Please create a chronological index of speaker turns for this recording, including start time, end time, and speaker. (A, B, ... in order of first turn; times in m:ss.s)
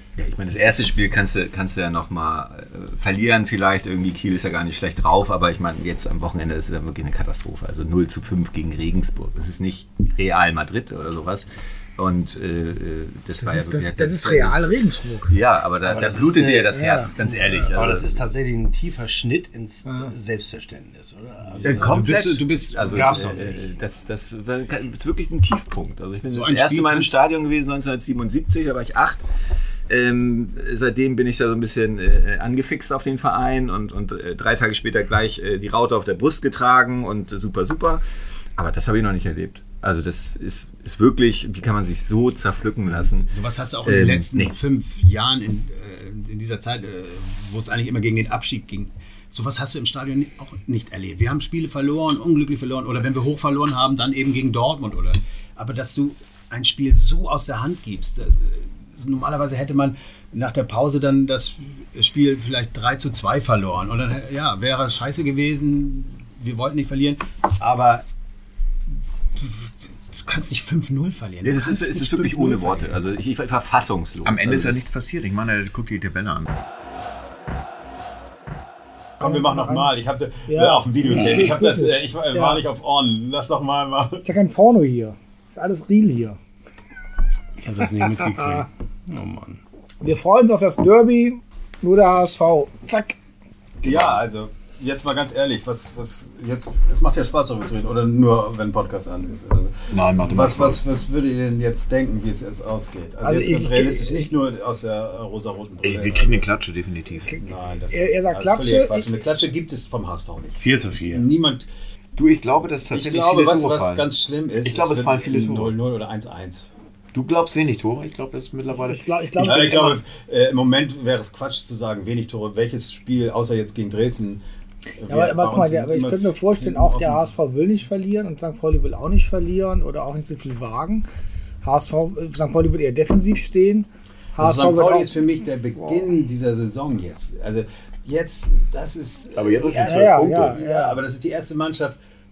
0:00.2-0:11.5 A
0:12.0-0:18.2 A
0:13.4-0:15.4 B
0:15.9-0:16.8 C
0:16.7-0:17.1 B
0:17.6-0:23.6 C
0:21.6-0:29.2 A
0:21.6-0:23.4 D
0:26.3-0:27.2 D
0:29.9-0:38.0 A
0:38.6-0:43.3 A
0:42.9-1:08.0 D
0:43.8-0:44.5 A
1:09.4-1:12.9 D
1:11.4-1:14.9 A
1:14.2-1:16.5 E
1:19.2-1:24.3 D
1:19.2-1:19.9 B
1:20.5-1:22.6 B
1:24.2-1:26.4 B
1:27.6-1:29.6 C
1:28.0-1:28.6 B
1:30.0-1:33.2 B
1:33.8-1:46.5 D
1:39.9-1:40.8 E
1:43.2-1:44.3 B
1:45.8-1:47.4 E
1:47.4-1:51.7 D
1:47.9-1:49.2 B
1:50.6-1:51.3 C
1:52.2-1:54.1 E
1:52.9-1:56.7 D
1:54.6-1:55.8 E
1:57.1-1:59.8 E
1:58.7-2:00.0 B
1:59.4-2:04.4 D
2:05.0-2:07.3 D
2:05.1-2:11.0 B
2:11.6-2:15.2 B
2:14.4-2:22.0 D
2:19.4-2:20.6 E
2:19.8-2:21.0 B